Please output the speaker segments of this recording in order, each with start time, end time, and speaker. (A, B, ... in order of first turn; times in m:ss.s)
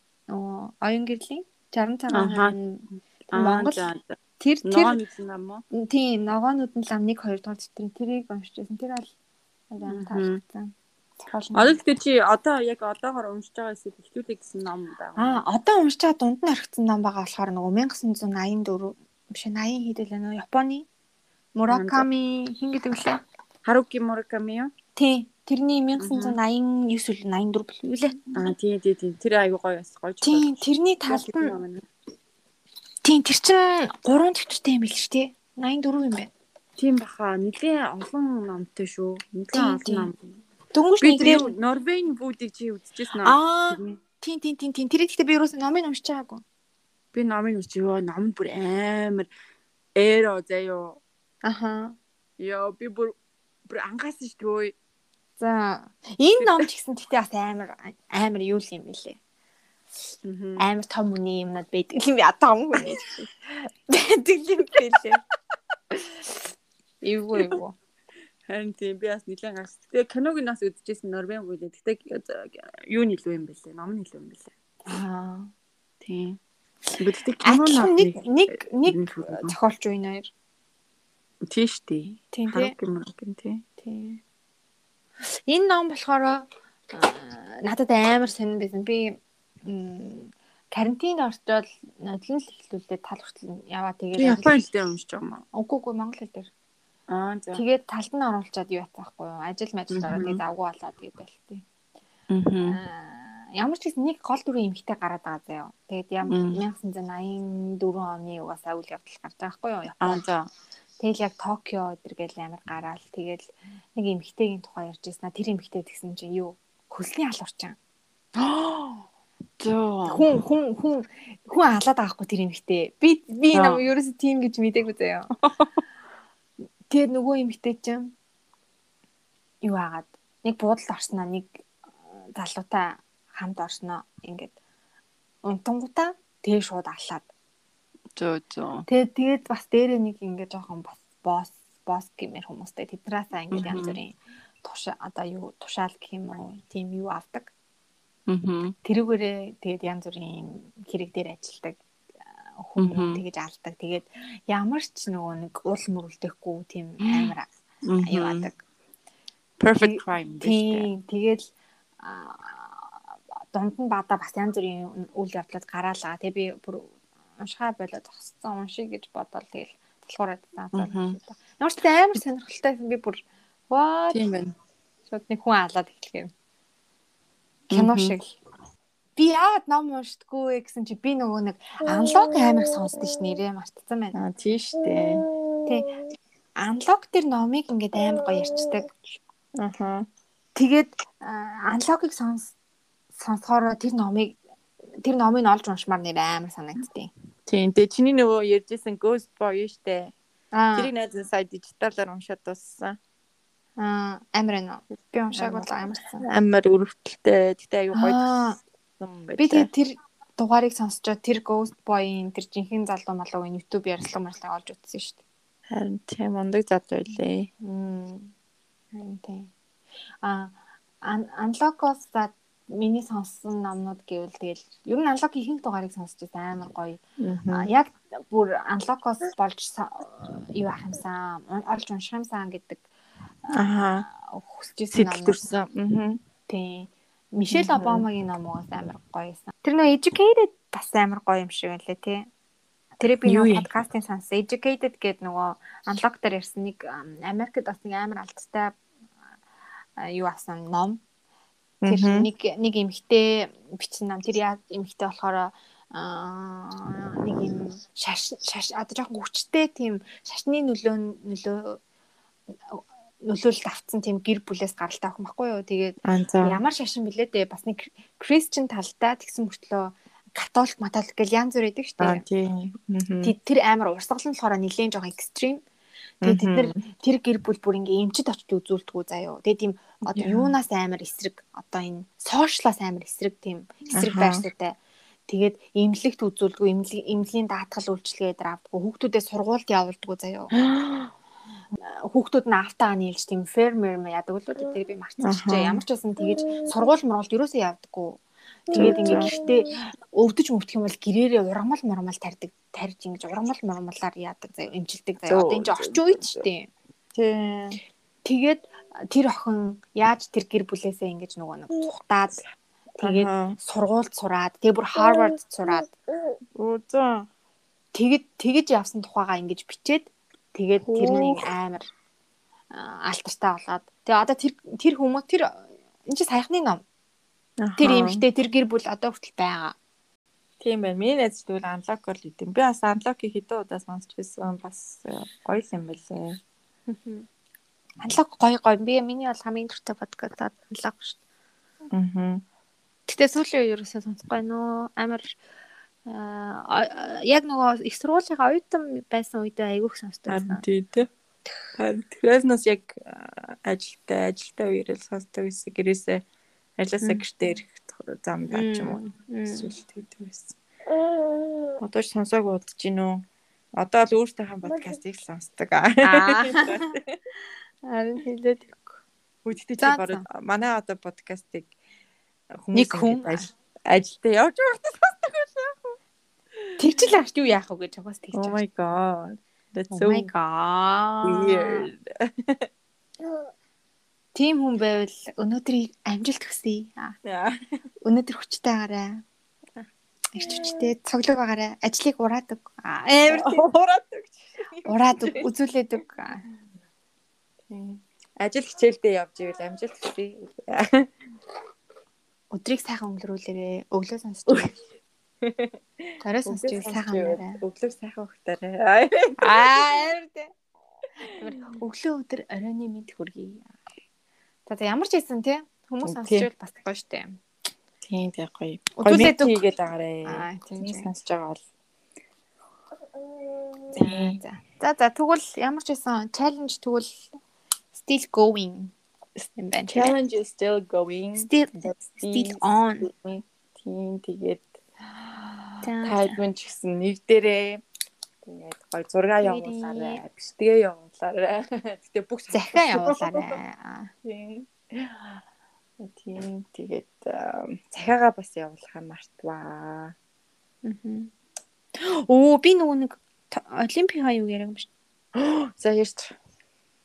0:00.3-0:03.8 A
0:02.1-0:02.6 B
0:03.3-0:05.6 B
0:04.4-0:05.0 A
0:05.7-0:09.1 A
0:09.7-0:10.7 A
0:09.9-0:10.4 B
0:11.3-0:11.8 A
0:11.5-0:15.4 B
0:15.2-0:20.8 A
0:21.6-0:23.2 A
0:21.7-0:22.1 B
0:23.6-0:24.7 B
0:25.0-0:28.2 A
0:26.0-0:26.4 B
0:28.3-0:30.5 B
0:30.2-0:31.6 A
0:31.1-0:31.8 B
0:33.0-0:36.3 A
0:36.8-0:40.4 B
0:39.5-0:40.1 A
0:40.7-0:41.5 A
0:41.0-0:44.0 B
0:43.2-0:46.4 A
0:47.1-0:49.3 B
0:50.0-0:51.0 B
0:51.4-0:52.0 A
0:52.4-0:53.1 B
0:53.7-0:54.7 B
0:55.4-0:59.2 A
0:56.4-0:56.7 B
1:00.2-1:00.6 B
1:00.6-1:03.1 A
1:02.8-1:03.3 B
1:03.9-1:05.2 A
1:07.0-1:07.8 A
1:08.5-1:14.5 B
1:14.9-1:15.5 A
1:16.0-1:16.4 B
1:17.0-1:19.6 B
1:17.4-1:20.3 A
1:21.5-1:23.6 B
1:22.3-1:22.7 A
1:23.8-1:24.2 A
1:25.5-1:34.5 A
1:34.2-1:35.4 B
1:35.5-1:36.5 A
1:37.1-1:37.6 B
1:37.5-1:41.6 A
1:39.9-1:40.4 B
1:42.3-1:42.8 B
1:42.6-1:50.2 A
1:46.3-1:46.6 B
1:50.0-1:50.5 B
1:51.0-1:57.8 A
1:58.3-1:59.0 B
1:59.6-2:00.2 B
2:00.0-2:05.3 A
2:03.5-2:03.8 B
2:05.4-2:05.7 B
2:06.9-2:08.1 A
2:09.6-2:11.6 A
2:12.3-2:14.6 A
2:15.4-2:17.3 A
2:18.1-2:18.8 B
2:18.9-2:27.5 A
2:23.5-2:24.0 B
2:28.3-2:28.7 B
2:28.8-2:31.8 A
2:32.6-2:37.5 A
2:32.8-2:33.2 B
2:37.0-2:37.3 B
2:37.8-2:38.5 B
2:38.0-2:38.6 A
2:39.6-2:40.9 B
2:39.8-2:41.4 A
2:42.0-2:43.0 A
2:43.5-2:54.2 A
2:50.7-2:51.2 B
2:54.1-2:54.5 B
2:55.1-2:56.3 A
2:57.7-2:58.3 A
2:57.7-2:58.2 B
2:59.2-3:04.2 A
3:04.1-3:05.2 B
3:05.6-3:05.9 A
3:06.6-3:09.0 A
3:09.6-3:10.1 B
3:10.5-3:12.5 A
3:13.2-3:14.4 A
3:15.0-3:17.1 A
3:17.5-3:20.1 B
3:20.5-3:20.9 A
3:20.8-3:23.0 B
3:23.8-3:26.2 A
3:25.3-3:28.3 B
3:27.9-3:28.6 A
3:29.0-3:29.7 B
3:29.4-3:35.2 A
3:35.7-3:37.5 B
3:37.6-3:38.3 A
3:38.9-3:39.5 A
3:40.2-3:52.8 A
3:47.2-3:47.7 B
3:53.4-3:55.4 A
3:53.5-3:54.0 B
3:54.9-3:56.2 B
3:56.5-4:02.3 A
3:57.5-3:58.0 B
4:03.0-4:08.8 A
4:03.2-4:03.7 B
4:10.0-4:11.0 A
4:11.8-4:12.3 B
4:11.8-4:21.8 A
4:22.7-4:32.2 A
4:26.0-4:26.6 B
4:32.0-4:33.3 B
4:33.2-4:35.6 A
4:36.2-4:36.8 B
4:36.2-4:50.6 A
4:40.1-4:40.5 B
4:43.9-4:44.4 B
4:50.5-4:51.1 B
4:51.8-5:06.7 A
4:55.2-4:55.8 B
4:58.7-4:59.3 B
5:05.2-5:06.4 B
5:07.1-5:07.8 B
5:08.2-5:12.4 A
5:13.0-5:15.9 A
5:13.0-5:13.6 B
5:16.6-5:17.3 B
5:17.9-5:21.9 A
5:20.8-5:21.5 B
5:22.7-5:26.8 A
5:27.6-5:28.2 B
5:27.8-5:29.7 A
5:30.6-5:36.4 B
5:36.9-5:37.2 A
5:38.0-5:41.2 A
5:41.9-5:42.4 B
5:43.1-5:45.3 A
5:46.0-5:50.6 A
5:50.3-5:51.1 B
5:51.7-5:56.2 B
5:56.8-6:00.5 B
5:58.5-5:59.7 A
6:01.8-6:07.1 B
6:06.0-6:06.9 A
6:07.8-6:09.0 A
6:09.4-6:11.7 B
6:09.8-6:10.2 A
6:12.6-6:15.9 B
6:12.7-6:13.5 A
6:16.8-6:18.6 A
6:18.3-6:20.3 B
6:19.9-6:21.9 A
6:21.2-6:22.7 B
6:24.3-6:27.2 A
6:27.2-6:27.5 B
6:28.0-6:29.2 A
6:30.3-6:33.7 A
6:30.4-6:30.6 B
6:33.2-6:35.4 B
6:34.8-6:36.4 A
6:37.7-6:41.1 B
6:42.5-6:44.7 A
6:45.4-6:49.8 B
6:46.2-6:47.6 A
6:49.4-6:50.5 A
6:51.2-6:53.7 A
6:54.7-6:57.4 A
6:56.0-6:56.5 B
6:58.0-7:01.6 B
6:59.0-6:59.6 A
7:00.2-7:01.1 A
7:03.5-7:04.4 B
7:03.9-7:07.3 A
7:07.9-7:08.9 A
7:09.5-7:10.1 A
7:09.9-7:14.8 B
7:11.4-7:13.1 A
7:15.4-7:17.8 B
7:15.8-7:16.4 A
7:18.4-7:23.6 B
7:19.4-7:20.2 A
7:22.5-7:24.1 A
7:24.2-7:25.4 B
7:26.0-7:30.1 B
7:30.8-7:31.3 A
7:32.0-7:34.9 A
7:35.3-7:36.3 B